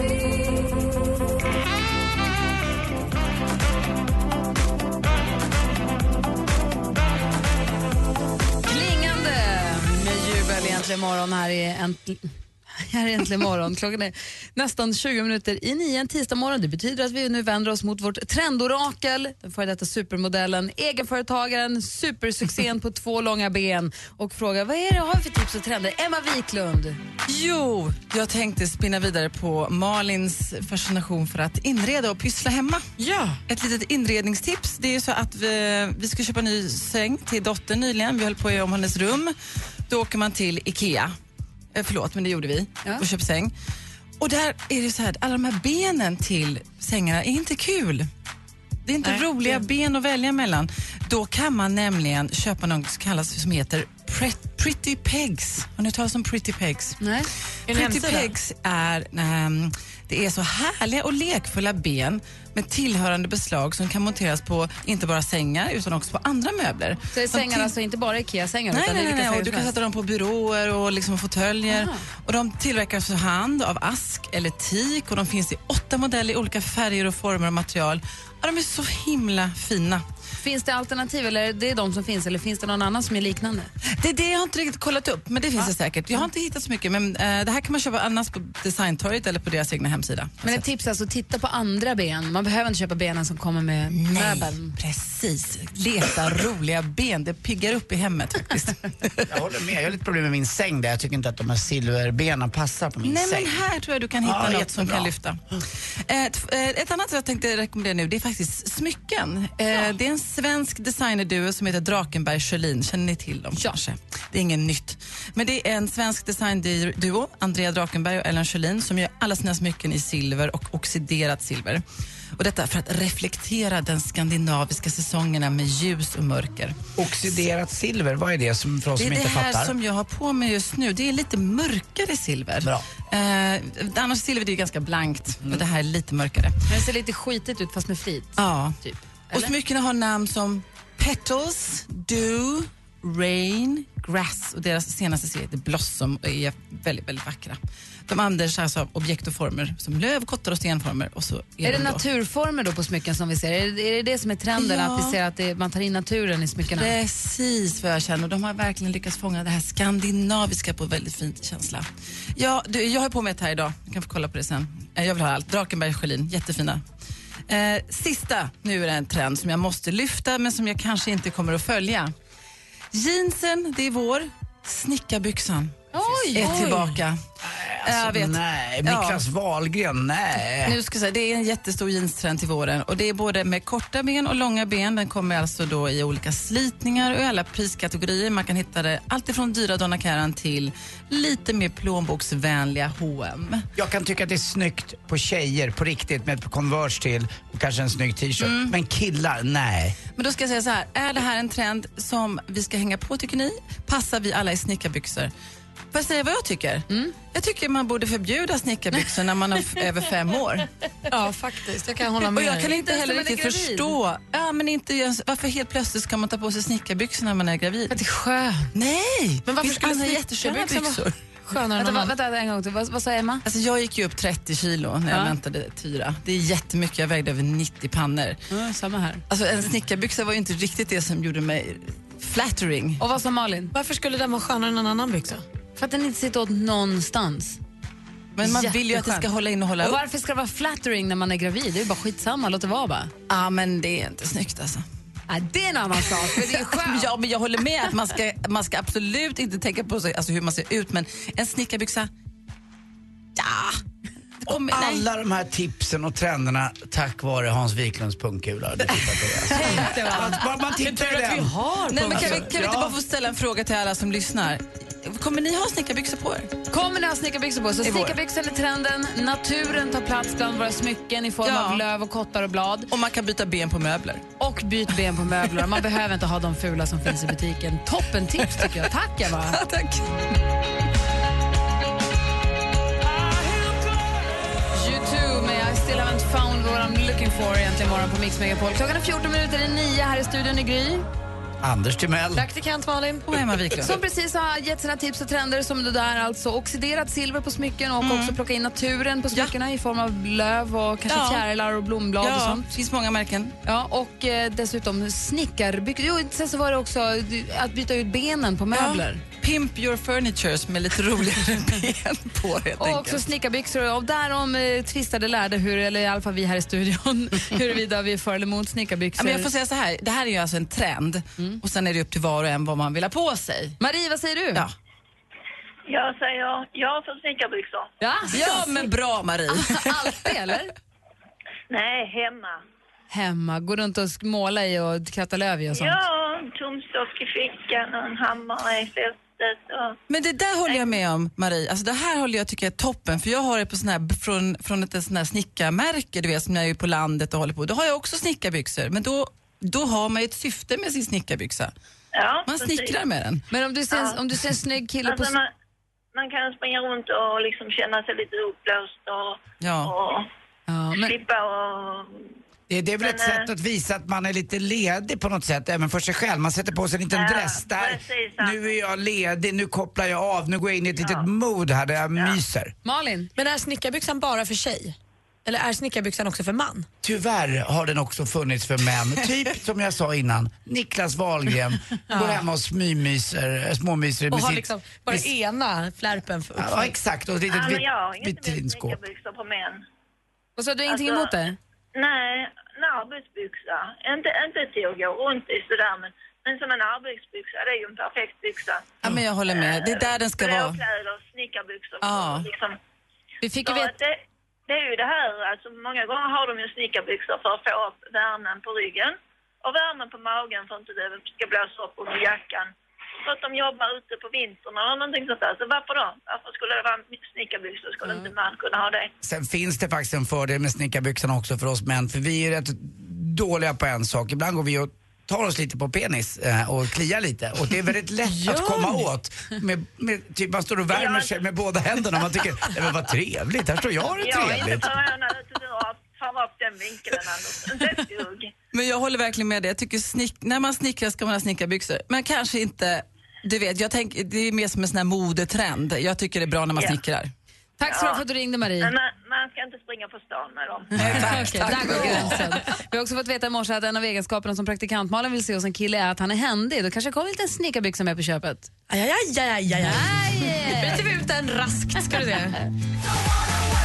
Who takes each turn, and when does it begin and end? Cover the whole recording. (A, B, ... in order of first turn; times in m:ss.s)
0:08.6-0:27.0 A
0:27.3-0:32.9 B
0:33.0-0:33.4 C
0:33.5-0:39.3 B
0:39.9-0:41.1 B
0:41.7-0:43.5 B
0:44.2-0:48.1 B
0:48.8-0:57.0 B
0:57.0-0:57.3 A
0:57.7-0:58.3 C
0:57.7-1:07.7 B
1:07.1-1:09.7 A
1:08.7-1:20.0 B
1:11.7-1:12.0 A
1:20.4-1:23.7 A
1:23.9-1:30.6 B
1:25.6-1:26.2 A
1:30.4-1:34.7 A
1:34.0-1:39.3 B
1:39.3-1:43.6 D
1:43.0-1:45.4 B
1:44.2-1:45.1 D
1:46.0-2:01.8 B
2:02.4-2:06.8 B
2:07.0-2:09.7 D
2:09.0-2:16.6 B
2:16.7-2:19.5 A
2:18.4-2:18.8 B
2:19.3-2:32.0 B
2:31.6-2:36.9 A
2:34.6-2:35.2 B
2:36.7-2:46.8 B
2:47.5-2:52.1 B
2:52.9-2:57.2 B
2:55.9-2:56.7 A
2:56.4-2:56.9 C
2:57.4-3:00.8 D
2:57.8-2:59.2 B
3:00.6-3:13.6 B
3:13.8-3:20.0 D
3:18.4-3:18.7 B
3:20.2-3:25.3 B
3:25.9-3:30.7 B
3:26.9-3:27.1 A
3:31.1-3:32.7 C
3:32.2-3:38.0 B
3:32.6-3:34.0 A
3:37.9-3:38.7 A
3:38.7-3:41.1 B
3:39.4-3:42.1 C
3:41.7-3:43.4 A
3:43.4-3:48.4 B
3:45.1-3:45.3 A
3:48.5-3:49.2 A
3:49.3-3:53.0 B
3:53.0-3:53.7 A
3:53.7-3:55.4 C
3:55.8-3:57.6 A
3:58.4-4:00.0 B
3:58.4-3:59.3 A
3:59.8-4:03.1 A
4:03.3-4:04.8 B
4:05.3-4:07.1 A
4:06.2-4:12.1 B
4:13.4-4:13.8 B
4:14.4-4:15.0 B
4:14.5-4:21.5 D
4:19.6-4:20.4 A
4:20.8-4:22.5 C
4:21.9-4:26.5 B
4:22.1-4:22.9 D
4:26.7-4:32.9 A
4:27.8-4:28.2 B
4:31.4-4:31.8 B
4:32.9-4:34.2 B
4:34.4-4:39.6 A
4:39.4-4:40.1 B
4:44.7-4:51.0 A
4:51.6-4:52.4 D
4:52.4-4:53.3 C
4:53.3-4:54.0 B
4:53.8-5:02.7 A
4:58.0-4:58.4 B
5:01.1-5:01.4 B
5:02.2-5:03.5 B
5:03.6-5:09.2 A
5:08.7-5:13.2 B
5:12.8-5:19.5 A
5:19.2-5:23.8 B
5:23.8-5:24.6 A
5:25.9-5:27.9 E
5:28.0-5:28.9 A
5:28.3-5:30.3 B
5:29.5-5:30.7 A
5:31.7-5:32.6 E
5:33.1-5:36.0 A
5:35.7-5:40.0 E
5:40.1-5:51.7 B
5:40.7-5:40.9 E
5:52.1-5:53.0 E
5:52.5-5:53.4 B
5:53.5-5:55.4 A
5:53.9-5:54.2 E
5:55.0-5:55.5 E
5:56.1-6:00.3 E
5:59.6-5:59.9 B
6:00.7-6:01.1 A
6:01.0-6:02.3 E
6:02.7-6:12.7 D
6:03.0-6:03.5 E
6:07.1-6:08.8 E
6:11.0-6:11.3 E
6:12.8-6:13.3 A
6:13.3-6:16.9 C
6:17.0-6:25.3 D
6:22.1-6:22.4 C
6:24.3-6:26.9 C
6:26.6-6:29.0 D
6:27.5-6:29.8 E
6:30.6-6:31.6 A
6:30.9-6:31.3 E
6:31.9-6:42.8 E
6:39.0-6:40.8 B
6:42.0-6:42.5 B
6:43.4-6:43.9 A
6:43.6-6:59.1 E
6:59.2-7:14.9 D
7:08.2-7:09.1 C
7:10.9-7:11.4 E
7:14.2-7:18.5 E
7:18.7-7:27.3 B
7:26.7-7:27.0 E
7:27.8-7:28.9 A
7:27.8-7:28.2 E
7:28.8-7:31.0 E
7:31.0-7:32.4 B
7:31.0-7:31.4 D
7:31.1-7:38.7 A
7:31.4-7:32.5 C
7:38.9-7:42.6 C
7:39.8-7:41.1 A